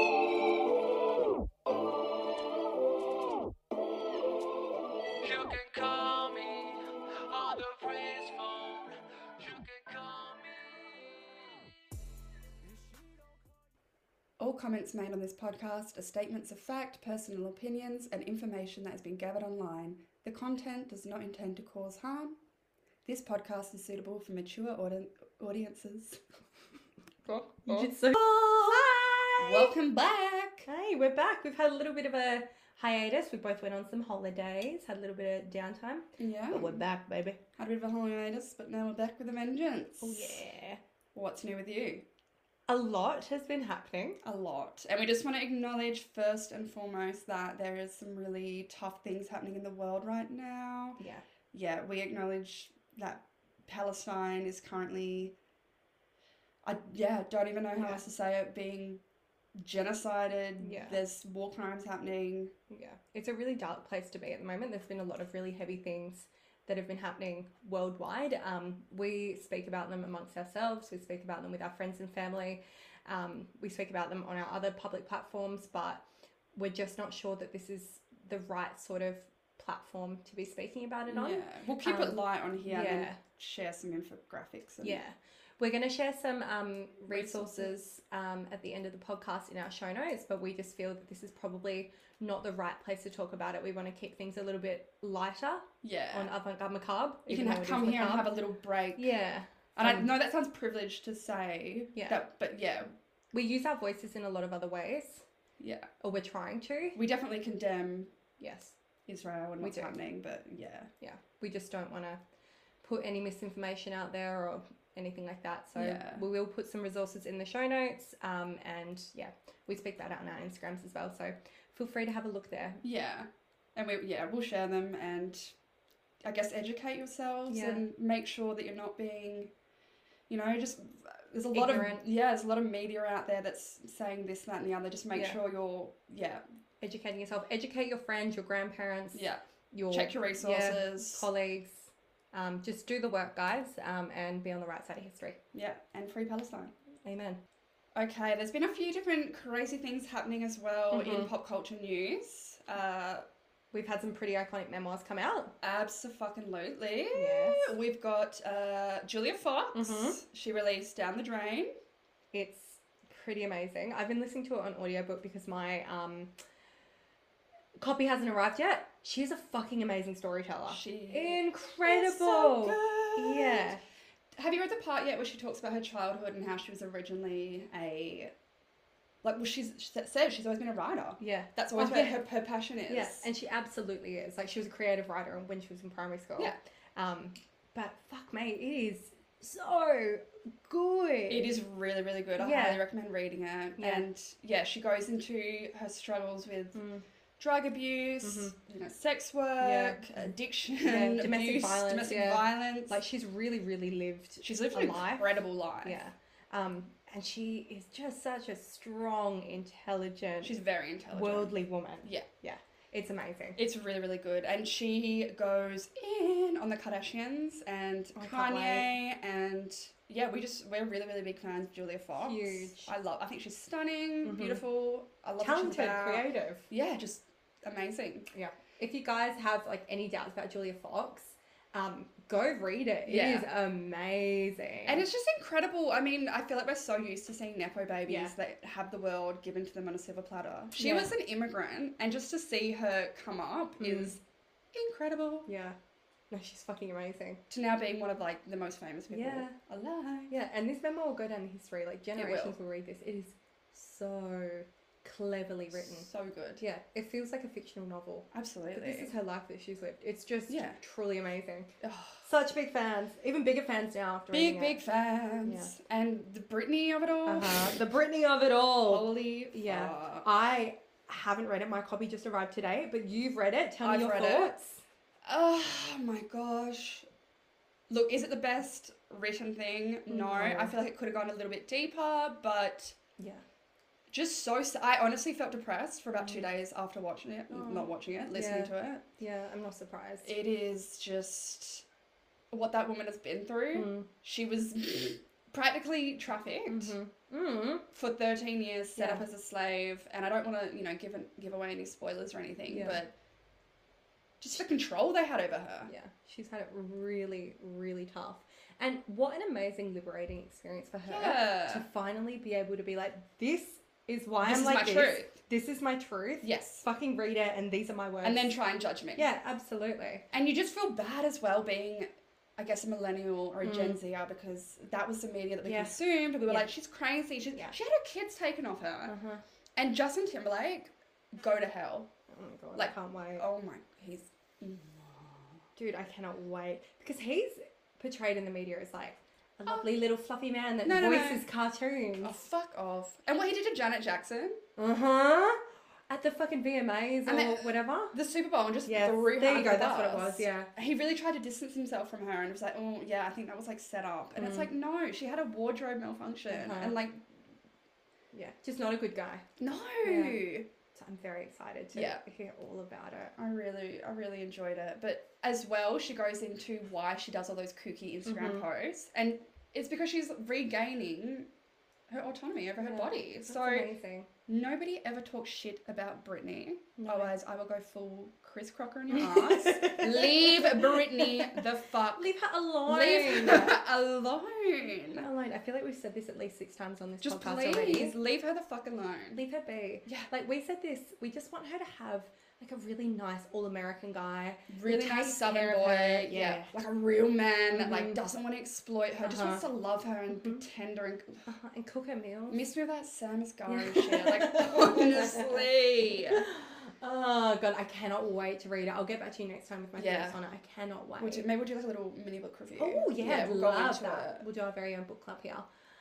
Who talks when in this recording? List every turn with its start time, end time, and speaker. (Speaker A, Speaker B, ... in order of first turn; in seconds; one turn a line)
Speaker A: 5.2-11.7
Speaker B: 14.4-22.4
Speaker B: 23.1-26.2
Speaker B: 27.3-27.9
Speaker C: 27.7-29.7
Speaker B: 29.4-30.7
Speaker C: 30.7-37.4
Speaker B: 36.2-36.8
Speaker B: 37.6-40.4
Speaker C: 40.0-40.8
Speaker B: 41.1-42.0
Speaker C: 42.7-44.2
Speaker B: 44.2-51.0
Speaker C: 51.0-51.2
Speaker B: 51.5-55.4
Speaker B: 56.6-59.0
Speaker B: 59.6-62.5
Speaker C: 60.6-61.0
Speaker C: 62.7-76.0
Speaker C: 76.5-83.2
Speaker B: 81.1-85.0
Speaker C: 84.8-98.3
Speaker B: 87.1-87.8
Speaker B: 95.8-96.3
Speaker B: 97.3-99.1
Speaker C: 99.0-100.1
Speaker B: 99.8-102.9
Speaker C: 102.0-102.2
Speaker C: 103.3-105.3
Speaker B: 105.6-105.9
Speaker C: 106.0-107.0
Speaker B: 107.0-108.1
Speaker C: 108.4-108.8
Speaker B: 109.1-110.9
Speaker C: 109.6-109.9
Speaker C: 111.0-112.2
Speaker C: 112.8-122.8
Speaker B: 115.8-116.2
Speaker B: 122.8-125.5
Speaker B: 126.2-129.5
Speaker C: 127.5-127.8
Speaker B: 130.3-136.4
Speaker C: 131.5-132.1
Speaker C: 136.8-145.4
Speaker B: 139.1-141.3
Speaker B: 145.5-146.7
Speaker C: 147.1-147.4
Speaker B: 147.9-153.2
Speaker C: 150.9-151.3
Speaker C: 153.7-155.5
Speaker B: 155.6-161.7
Speaker C: 157.1-157.7
Speaker C: 159.7-160.2
Speaker C: 162.3-166.3
Speaker C: 167.8-173.8
Speaker B: 170.7-173.7
Speaker B: 174.4-178.3
Speaker B: 179.2-183.3
Speaker C: 181.2-182.2
Speaker C: 182.9-191.5
Speaker B: 191.3-196.8
Speaker C: 192.4-192.8
Speaker C: 193.8-194.1
Speaker C: 196.8-197.1
Speaker B: 197.4-203.0
Speaker C: 198.2-198.6
Speaker C: 199.6-200.0
Speaker C: 200.8-210.5
Speaker B: 204.4-206.0
Speaker B: 210.4-212.3
Speaker C: 211.2-213.6
Speaker B: 213.6-228.3
Speaker C: 218.2-218.9
Speaker C: 222.2-222.9
Speaker C: 224.2-224.6
Speaker C: 225.4-226.7
Speaker C: 228.3-235.0
Speaker B: 233.1-233.5
Speaker B: 234.9-244.2
Speaker C: 238.1-238.3
Speaker C: 240.8-241.2
Speaker C: 243.8-244.1
Speaker B: 244.7-245.5
Speaker C: 245.5-245.8
Speaker C: 246.3-247.4
Speaker B: 247.5-250.3
Speaker C: 249.1-249.6
Speaker C: 250.3-256.1
Speaker B: 252.2-252.6
Speaker B: 255.8-256.6
Speaker C: 256.6-261.7
Speaker B: 258.3-259.1
Speaker B: 260.5-260.8
Speaker B: 261.8-262.2
Speaker C: 262.2-264.8
Speaker B: 264.3-267.8
Speaker C: 265.4-265.7
Speaker C: 267.3-274.8
Speaker B: 268.8-270.3
Speaker B: 273.8-274.5
Speaker B: 275.2-277.1
Speaker B: 277.9-283.0
Speaker C: 280.1-280.7
Speaker C: 283.2-283.4
Speaker B: 284.1-289.0
Speaker C: 286.2-286.5
Speaker C: 287.5-290.3
Speaker B: 290.2-291.9
Speaker B: 292.5-296.9
Speaker C: 293.7-294.1
Speaker C: 296.7-297.9
Speaker B: 297.9-303.1
Speaker C: 299.0-299.2
Speaker C: 302.7-303.0
Speaker B: 304.4-305.9
Speaker C: 305.9-318.6
Speaker B: 311.1-311.9
Speaker B: 314.4-315.3
Speaker B: 316.4-316.8
Speaker B: 318.2-319.3
Speaker C: 319.2-320.3
Speaker B: 320.3-329.1
Speaker C: 323.6-324.0
Speaker C: 325.6-326.7
Speaker C: 329.1-329.4
Speaker B: 329.8-332.1
Speaker C: 332.3-333.4
Speaker B: 332.8-335.6
Speaker C: 335.8-342.4
Speaker B: 340.8-341.5
Speaker B: 342.2-344.6
Speaker C: 344.8-348.2
Speaker B: 347.3-357.3
Speaker C: 348.9-350.7
Speaker C: 354.4-354.7
Speaker C: 356.5-357.0
Speaker C: 358.3-359.4
Speaker B: 359.6-360.7
Speaker C: 360.0-360.4
Speaker C: 360.9-363.4
Speaker B: 361.9-362.2
Speaker B: 363.4-371.5
Speaker C: 368.3-368.6
Speaker B: 372.1-373.9
Speaker C: 372.8-374.3
Speaker B: 374.5-382.3
Speaker C: 377.0-377.3
Speaker C: 379.1-381.6
Speaker C: 382.1-383.8
Speaker B: 382.9-385.3
Speaker C: 385.2-388.1
Speaker B: 387.2-389.4
Speaker C: 389.3-396.7
Speaker B: 394.7-401.5
Speaker C: 397.7-398.2
Speaker C: 399.2-399.6
Speaker C: 400.3-400.6
Speaker C: 401.5-402.6
Speaker B: 402.5-406.4
Speaker C: 403.7-405.6
Speaker C: 406.2-411.4
Speaker B: 410.0-410.4
Speaker B: 411.2-414.4
Speaker C: 412.8-415.7